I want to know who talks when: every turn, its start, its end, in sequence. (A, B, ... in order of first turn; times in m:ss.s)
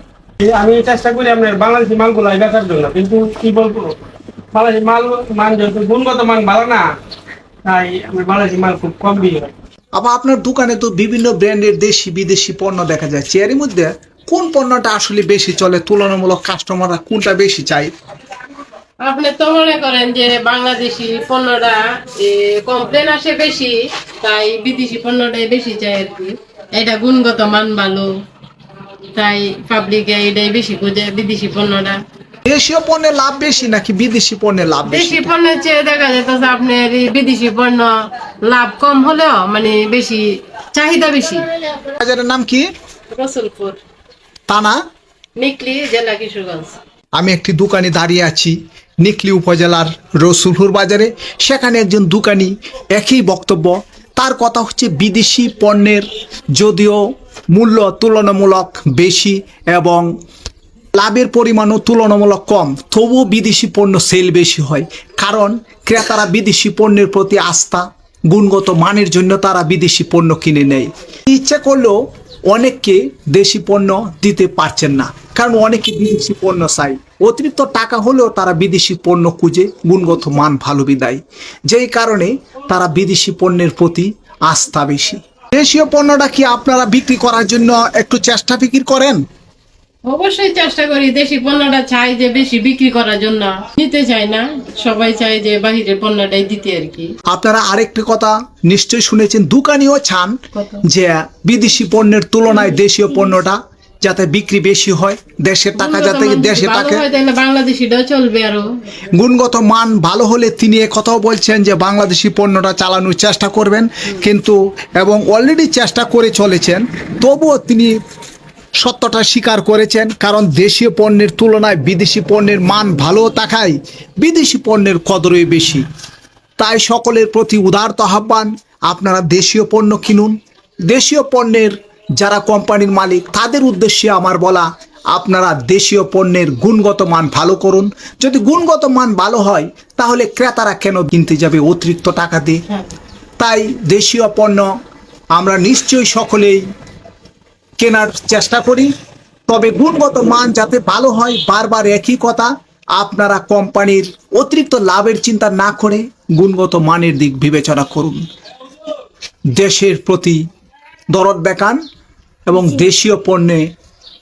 0:00.4-0:04.0 A
0:04.5-0:06.9 A
0:07.6-0:09.5 A
0:10.0-0:17.9 B
0:19.0-0:28.1 C
0:29.1-0:32.0 C
0:32.4-0:35.3 B
0:34.8-0:37.9 C
0:38.4-0:41.5 C
0:42.0-0:42.6 B
0:43.1-0:43.8 C
0:44.5-0:44.8 B
0:45.4-0:46.8 C
0:47.2-0:57.0 B
0:57.5-1:00.1 B
1:00.9-1:12.0 B
1:12.5-1:29.2 B
1:30.0-1:37.1 C
1:37.3-1:40.3 B
1:40.5-1:40.8 C
1:40.9-1:47.0 B
1:45.7-1:48.6 C
1:49.1-1:57.9 B
1:58.8-2:05.8 B
2:06.6-2:10.3 B
2:10.9-2:22.6 B
2:23.4-2:24.7 B
2:25.4-2:26.6 B
2:27.8-2:28.9 B
2:29.5-2:38.2 B
2:39.6-2:40.4 B
2:41.1-2:41.8 B
2:42.5-2:43.6 B